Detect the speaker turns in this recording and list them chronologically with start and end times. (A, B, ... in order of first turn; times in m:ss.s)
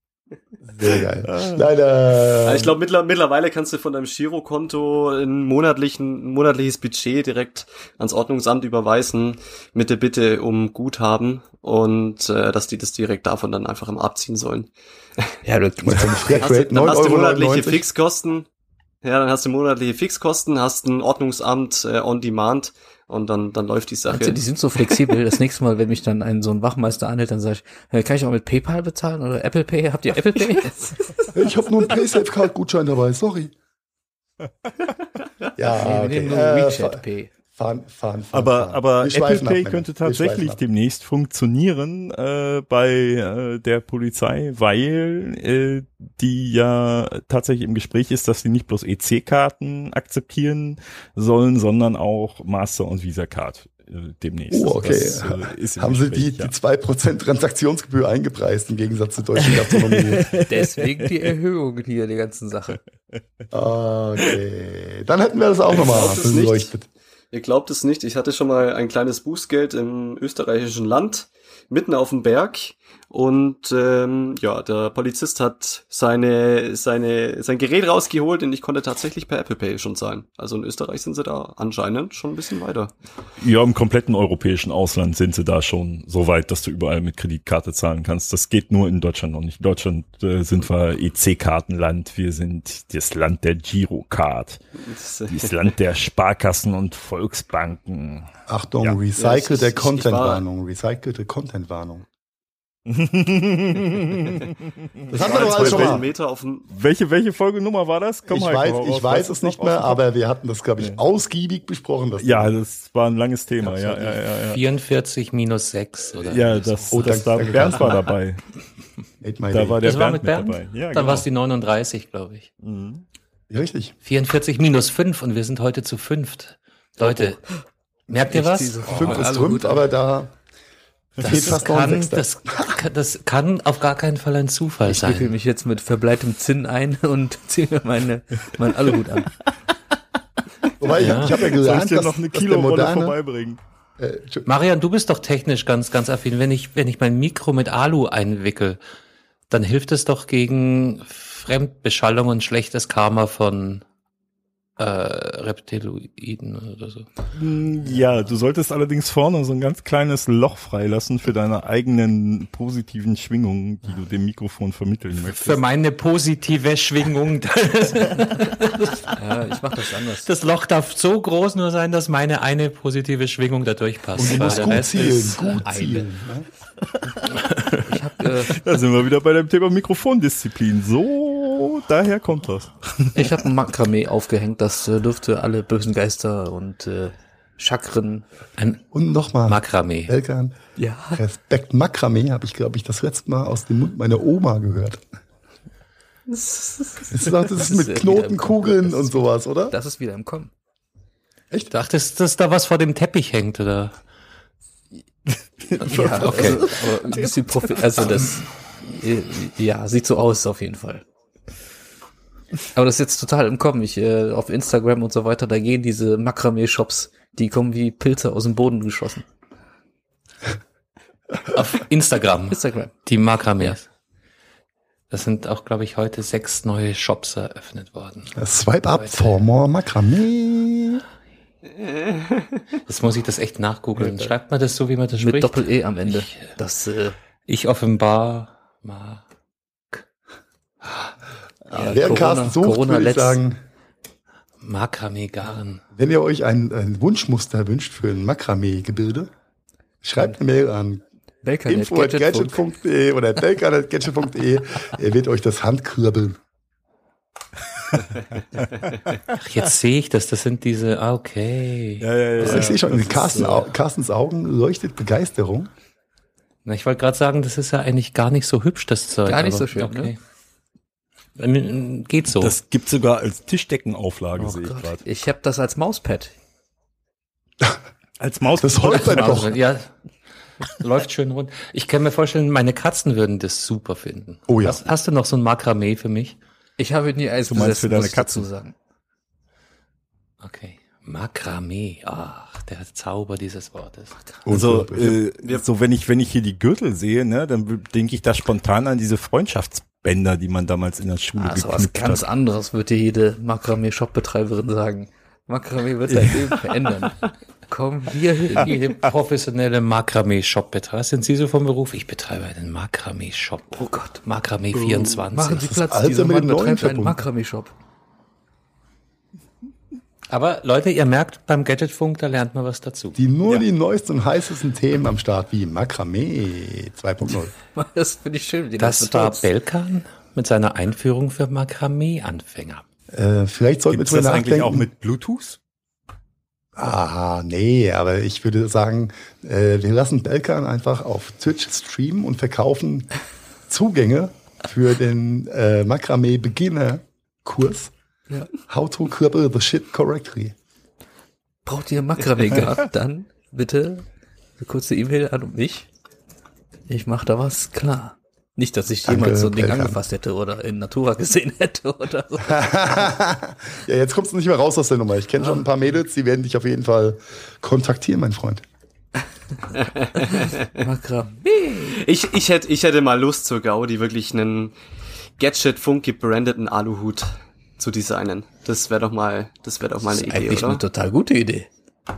0:00.6-0:02.7 A
0:01.2-0:01.7 B
0:02.4-0:15.4 C
0:15.4-0:16.5 D
0:15.8-0:17.8 A
0:16.4-0:18.5 C
0:19.0-0:25.1 C
0:24.1-0:31.1 D
0:31.3-0:33.5 A
0:35.6-0:40.6 A
0:35.7-0:37.3 D
0:38.3-0:56.5 B
0:54.5-1:00.3 A
0:59.6-1:01.1 B
1:00.5-1:02.8 D
1:03.5-1:06.9 A
1:05.7-1:06.7 C
1:07.3-1:22.9 C
1:23.4-1:38.3 B
1:34.8-1:35.5 C
1:38.5-1:42.1 A
1:39.2-1:40.4 C
1:42.9-1:44.5 B
1:45.1-1:46.0 B
1:45.1-1:46.1 A
1:45.1-1:46.7 C
1:46.7-1:50.0 B
1:48.3-1:52.5 A
1:52.2-1:54.6 B
1:53.8-1:58.0 E
1:56.2-1:58.4 B
1:56.9-1:58.0 A
1:59.2-1:59.9 A
1:59.5-2:01.3 B
1:59.8-2:02.5 E
2:02.6-2:03.0 B
2:03.5-2:03.9 A
2:04.0-2:07.4 E
2:07.0-2:07.4 D
2:08.1-2:08.8 E
2:08.1-2:09.8 D
2:08.9-2:10.3 A
2:11.2-2:12.8 A
2:11.2-2:15.3 E
2:14.9-2:19.4 D
2:20.8-2:23.2 A
2:21.0-2:21.4 E
2:21.0-2:23.6 B
2:24.0-2:24.5 A
2:24.5-2:28.8 E
2:29.5-2:33.8 E
2:34.8-2:37.1 E
2:37.4-2:45.6 B
2:45.3-2:49.3 E
2:48.6-2:50.3 D
2:50.2-2:55.7 E
2:54.2-2:56.5 A
2:54.2-2:56.0 D
2:57.8-2:58.6 D
2:58.5-3:03.4 B
3:03.2-3:08.3 D
3:08.6-3:08.8 E
3:08.9-3:15.0 A
3:09.5-3:10.1 E
3:10.8-3:11.2 D
3:16.3-3:17.0 C
3:17.1-3:19.8 A
3:17.4-3:20.5 D
3:21.7-3:24.0 E
3:25.6-3:27.8 B
3:25.8-3:31.0 D
3:25.8-3:26.6 E
3:32.7-3:39.2 D
3:41.5-3:43.9 E
3:42.5-3:43.0 D
3:45.1-3:48.3 E
3:48.4-3:51.0 A
3:48.9-3:49.3 E
3:51.7-3:52.5 C
3:52.9-3:56.5 E
3:54.0-3:54.3 D
3:55.2-3:57.2 D
3:57.5-3:59.2 E
4:00.8-4:01.1 E
4:01.7-4:03.6 A
4:01.8-4:03.4 D
4:04.6-4:05.8 E
4:05.9-4:09.3 A
4:10.0-4:11.0 A
4:11.4-4:12.6 D
4:11.7-4:16.4 A
4:19.3-4:22.7 E
4:22.0-4:23.6 B
4:22.4-4:25.7 A
4:26.6-4:30.2 E
4:29.3-4:30.1 D
4:31.4-4:32.6 E
4:32.4-4:35.0 B
4:34.4-4:36.3 D
4:38.2-4:39.6 B
4:38.6-4:39.6 A
4:38.8-4:39.9 E
4:40.6-4:46.4 E
4:44.5-4:44.8 A
4:46.8-4:48.8 D
4:47.5-4:48.5 B
4:50.4-4:54.2 E
4:54.4-4:55.2 A
4:54.5-5:02.2 B
5:01.4-5:08.8 D
5:06.1-5:06.6 B
5:08.6-5:15.8 E
5:13.8-5:14.1 D
5:15.3-5:17.7 D
5:15.7-5:17.2 A
5:20.3-5:23.6 E
5:23.2-5:27.5 A
5:27.7-5:29.5 D
5:28.8-5:32.8 E
5:33.1-5:34.9 A
5:33.9-5:35.6 B
5:36.8-5:43.1 A
5:43.7-5:47.9 A
5:48.6-5:50.6 A
5:51.6-5:54.0 D
5:54.6-5:55.9 D
5:56.9-6:02.8 D
5:59.0-6:00.0 A
6:02.4-6:08.6 A
6:09.8-6:10.8 C
6:10.2-6:12.0 D
6:11.8-6:14.7 C
6:15.4-6:20.8 C
6:20.0-6:21.7 D